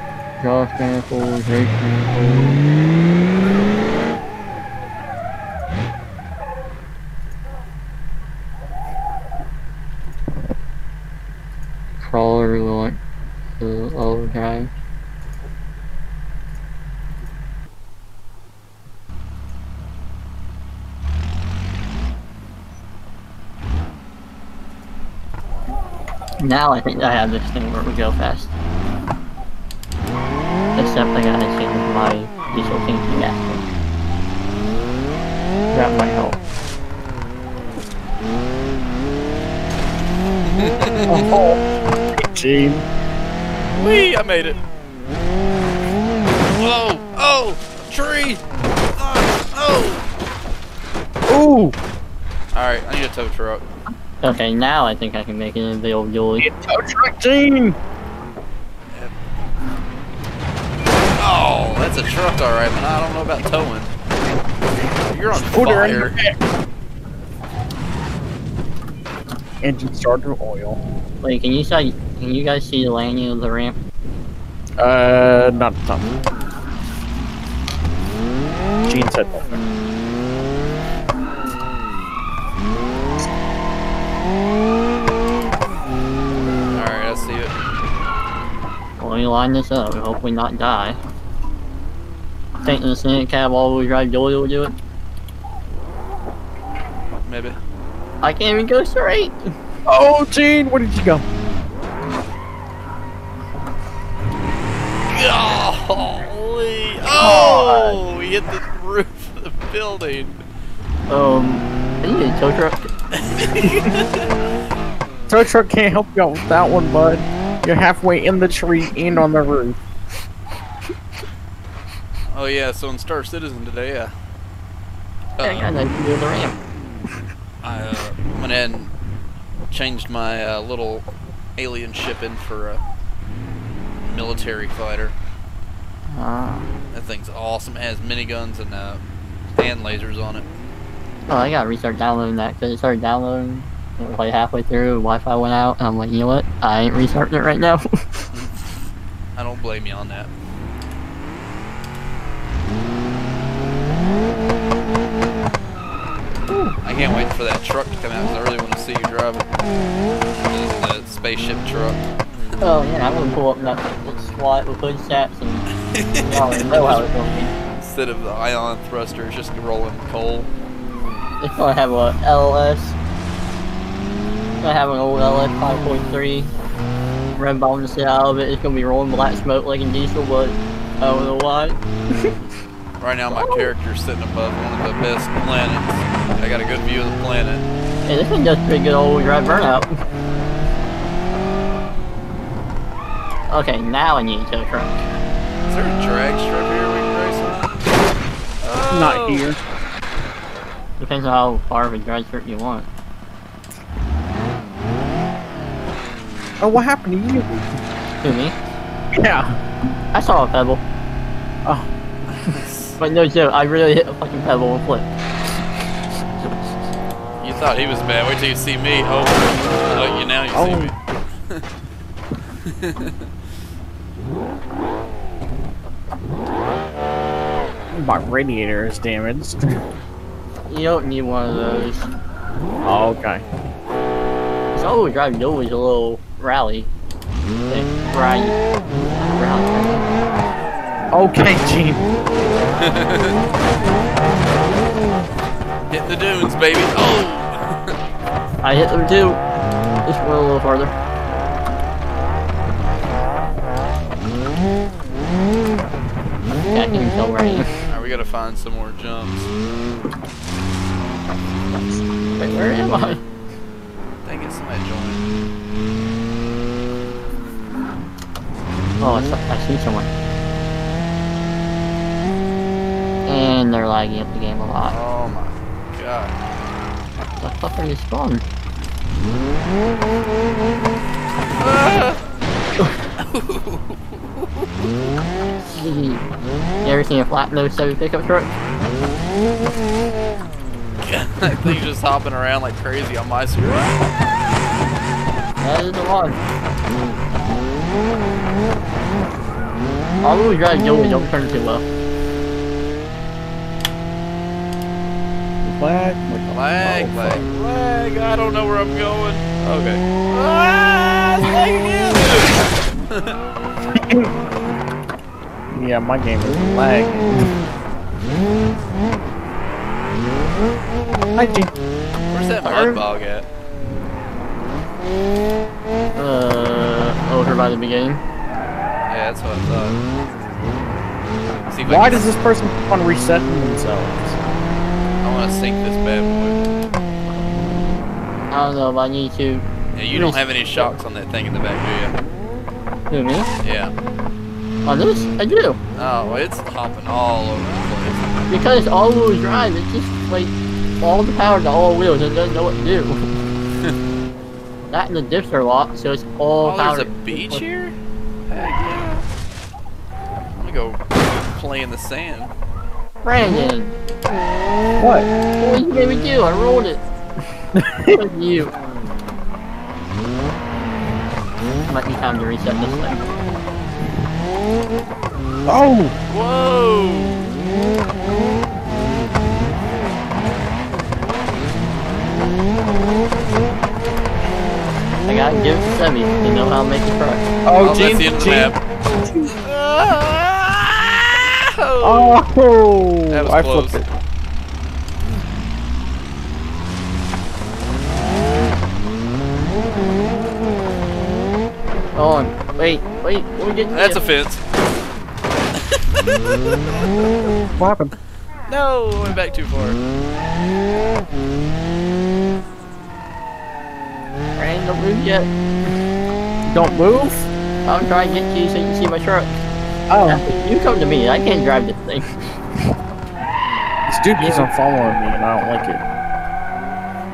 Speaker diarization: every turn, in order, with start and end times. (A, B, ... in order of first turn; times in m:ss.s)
0:00.4-0:02.6 A
0:12.0-0:13.0 A
0:13.6-0:14.7 A
0:26.4-0:28.5 A
0:30.8-0:33.6 A
0:35.7-0:36.2 B
0:35.8-0:36.4 A
0:40.5-0:41.3 C
0:41.1-0:41.6 B
0:42.2-0:42.8 B
0:43.7-0:44.6 C
0:46.5-0:48.4 C
0:49.0-0:50.0 C
0:51.3-0:51.7 B
0:52.5-0:53.6 C
0:54.2-0:56.5 A
0:56.4-0:57.8 B
1:01.2-1:03.9 C
1:05.0-1:06.2 C
1:05.3-1:06.4 B
1:09.6-1:10.8 B
1:11.2-1:13.8 A
1:14.8-1:16.1 B
1:18.8-1:19.6 B
1:26.7-1:27.6 C
1:29.0-1:31.0 A
1:32.6-1:34.7 A
1:37.2-1:37.6 C
1:38.2-1:39.5 A
1:39.8-1:41.2 B
1:45.1-1:50.4 C
1:47.2-1:48.0 B
1:51.1-1:52.9 A
1:53.1-1:54.3 C
1:55.3-1:59.8 B
2:02.3-2:04.1 C
2:05.4-2:05.7 C
2:05.4-2:06.6 A
2:07.6-2:08.9 C
2:09.7-2:11.0 C
2:11.6-2:12.8 C
2:14.0-2:15.1 C
2:16.1-2:16.7 A
2:16.9-2:19.0 C
2:19.5-2:20.4 C
2:21.3-2:28.3 A
2:29.4-2:30.3 C
2:36.5-2:36.8 A
2:36.8-2:39.4 C
2:40.4-2:42.0 C
2:42.6-2:45.6 A
2:45.9-2:47.1 C
2:46.3-2:47.5 A
2:47.6-2:50.5 C
2:51.4-2:53.0 A
2:54.6-2:56.5 A
2:57.4-3:02.3 A
3:03.0-3:07.6 C
3:03.3-3:03.7 A
3:08.1-3:10.0 A
3:13.5-3:14.9 A
3:15.6-3:17.9 C
3:18.6-3:19.6 C
3:18.9-3:19.6 B
3:21.0-3:22.9 A
3:26.6-3:27.7 B
3:28.2-3:28.5 A
3:29.1-3:29.6 B
3:30.1-3:30.8 A
3:32.3-3:33.0 C
3:33.0-3:35.1 A
3:37.4-3:41.0 C
3:40.5-3:40.9 B
3:42.6-3:43.3 C
3:47.9-3:49.8 B
3:50.7-3:52.1 A
3:52.8-3:53.4 B
3:54.7-3:56.9 A
3:57.7-4:00.1 A
4:01.1-4:02.0 B
4:02.8-4:03.3 C
4:05.9-4:08.0 C
4:08.6-4:09.4 A
4:10.0-4:10.9 A
4:16.4-4:17.7 A
4:17.9-4:19.5 C
4:21.9-4:23.2 A
4:24.2-4:25.3 C
4:29.0-4:30.1 A
4:33.3-4:35.0 A
4:34.9-4:36.3 C
4:37.4-4:38.4 A
4:41.6-4:42.2 C
4:43.2-4:44.7 C
4:45.7-4:46.2 A
4:46.8-4:48.5 A
4:51.0-4:54.0 C
4:55.6-4:56.4 A
5:00.2-5:01.8 A
5:05.6-5:07.4 B
5:06.5-5:13.4 C
5:13.9-5:14.3 B
5:15.7-5:17.5 B
5:21.4-5:21.7 B
5:22.3-5:23.5 C
5:22.7-5:23.0 A
5:26.2-5:28.2 A
5:29.0-5:30.0 C
5:31.7-5:32.4 C
5:31.8-5:34.4 B
5:35.2-5:36.7 C
5:38.5-5:40.9 A
5:39.9-5:42.2 C
5:43.1-5:43.5 A
5:43.6-5:43.9 C
5:44.8-5:45.8 A
5:46.0-5:48.2 C
5:48.5-5:53.2 A
5:54.9-5:57.6 A
5:56.6-5:57.9 C
5:58.5-5:59.2 C
6:00.6-6:02.5 C
6:03.2-6:04.0 A
6:05.0-6:05.3 B
6:05.6-6:07.0 A
6:07.7-6:08.2 B
6:08.0-6:08.7 A
6:11.9-6:13.3 A
6:15.7-6:16.1 B
6:16.3-6:17.5 C
6:25.2-6:27.5 A
6:27.6-6:28.7 B
6:27.8-6:28.8 C
6:29.3-6:32.4 C
6:32.0-6:34.1 B
6:33.3-6:34.0 C
6:42.1-6:44.2 A
6:43.9-6:44.6 C
6:46.1-6:47.3 C
6:47.8-6:48.1 B
6:48.7-6:50.0 C
6:54.6-6:55.5 A
6:56.7-6:57.5 B
6:57.8-6:59.5 A
7:00.1-7:00.4 B
7:00.3-7:02.4 A
7:04.1-7:06.0 B
7:04.4-7:04.7 A